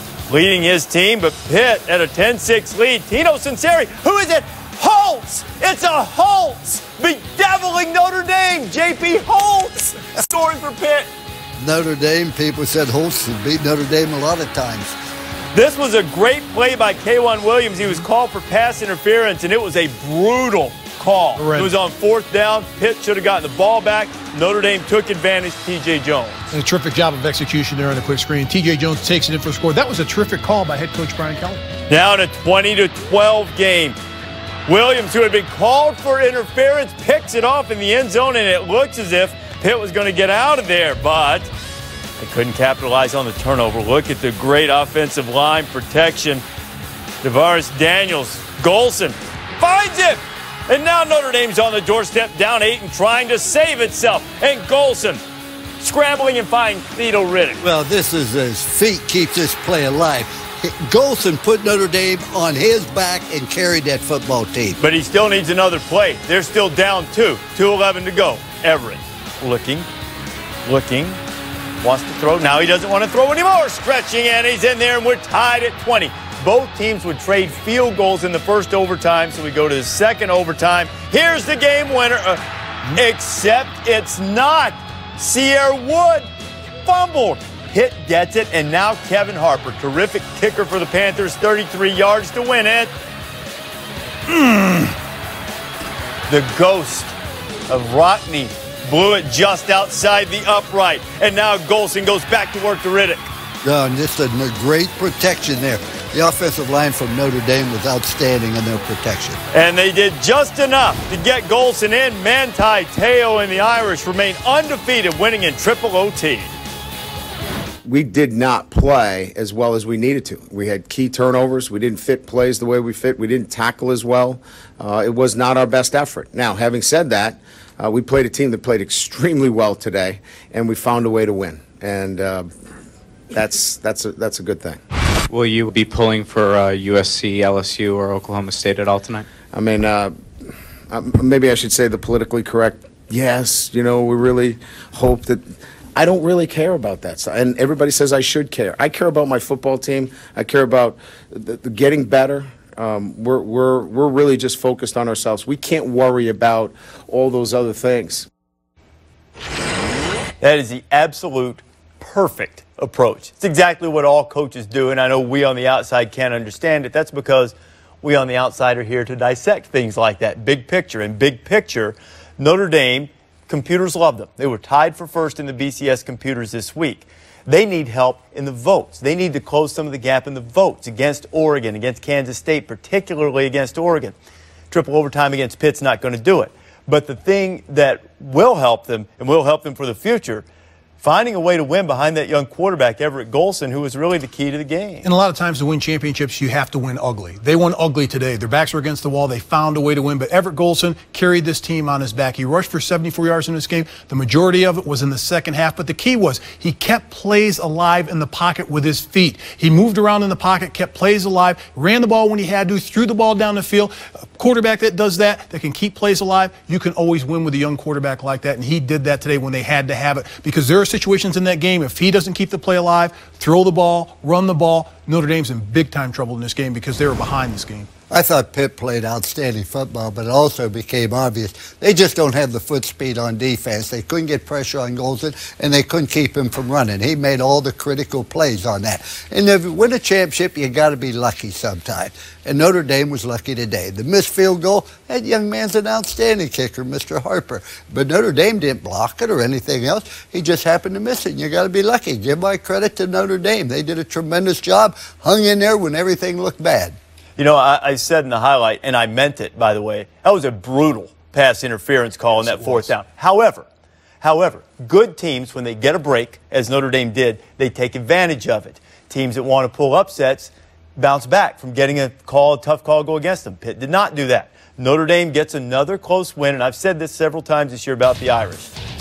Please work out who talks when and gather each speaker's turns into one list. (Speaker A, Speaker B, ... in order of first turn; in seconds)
Speaker A: 0.3-11.1, 15.5-26.4, 31.9-34.0, 34.6-41.5, 42.2-46.4, 47.2-55.2, 55.8-57.6, 64.8-69.9, 70.6-71.2, 71.8-86.3, 86.8-92.9, 96.3-97.1, 97.7-103.3, 109.5-116.5, 160.4-184.1, 184.7-190.4, 191.0-195.1, 257.4-263.6, 264.2-278.7
Speaker B: 11.6-14.9, 57.6-64.8, 103.6-109.4, 228.1-256.9
Speaker C: 21.4-21.7, 26.5-31.6, 195.0-227.9
Speaker D: 117.8-132.5, 133.3-134.8, 139.5-140.1, 140.9-158.3
Speaker E: 135.3-139.2